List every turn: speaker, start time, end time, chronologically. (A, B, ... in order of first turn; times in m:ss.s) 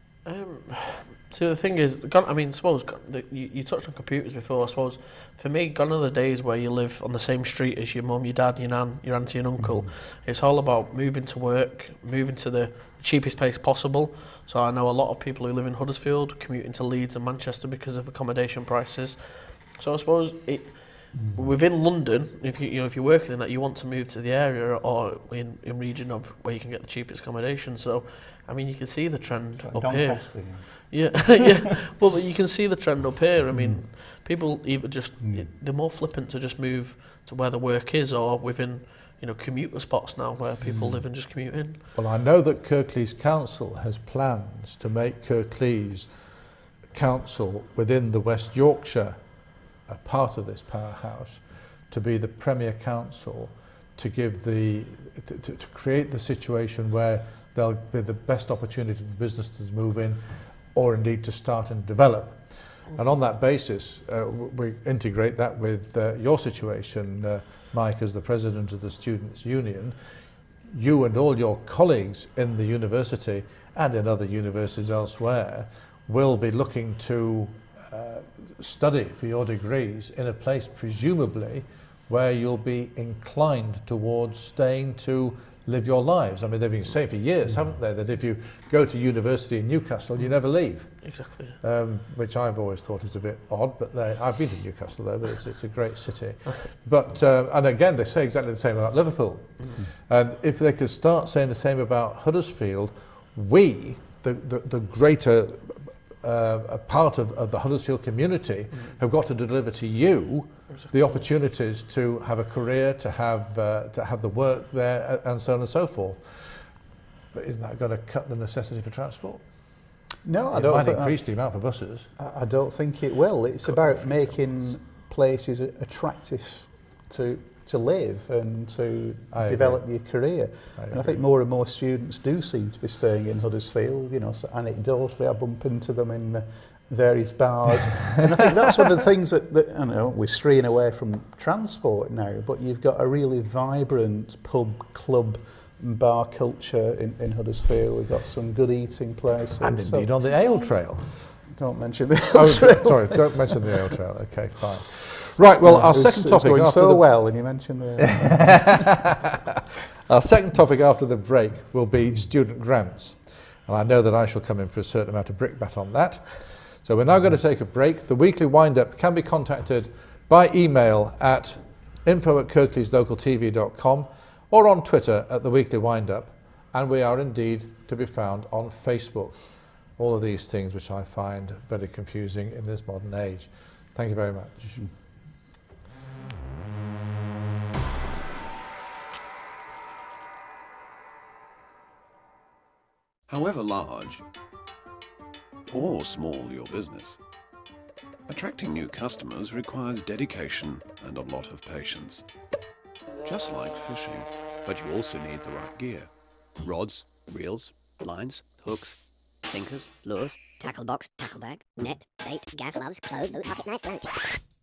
0:00.2-0:41.8 A
0:09.6-0:09.9 B
0:21.1-0:21.5 B
0:29.6-0:31.3 B
0:33.5-0:33.8 B
0:35.2-0:35.5 B
0:40.6-0:41.0 B
0:41.9-0:46.1 C
0:46.9-0:49.3 C
0:49.8-1:10.0 C
1:10.7-1:56.7 C
1:31.0-1:31.6 A
1:50.7-1:50.9 A
1:57.3-1:59.5 C
2:00.2-2:01.2 B
2:00.5-2:02.1 C
2:02.2-2:30.4 B
2:09.3-2:09.8 C
2:10.8-2:11.2 C
2:29.6-2:31.4 C
2:31.2-2:33.8 B
2:32.3-2:37.0 C
2:35.6-2:38.9 B
2:38.2-2:39.3 C
2:40.1-3:04.9 C
3:13.3-3:14.2 D
3:15.7-3:17.2 D
3:18.3-3:22.2 D
3:23.2-3:29.0 D
3:29.5-3:34.1 E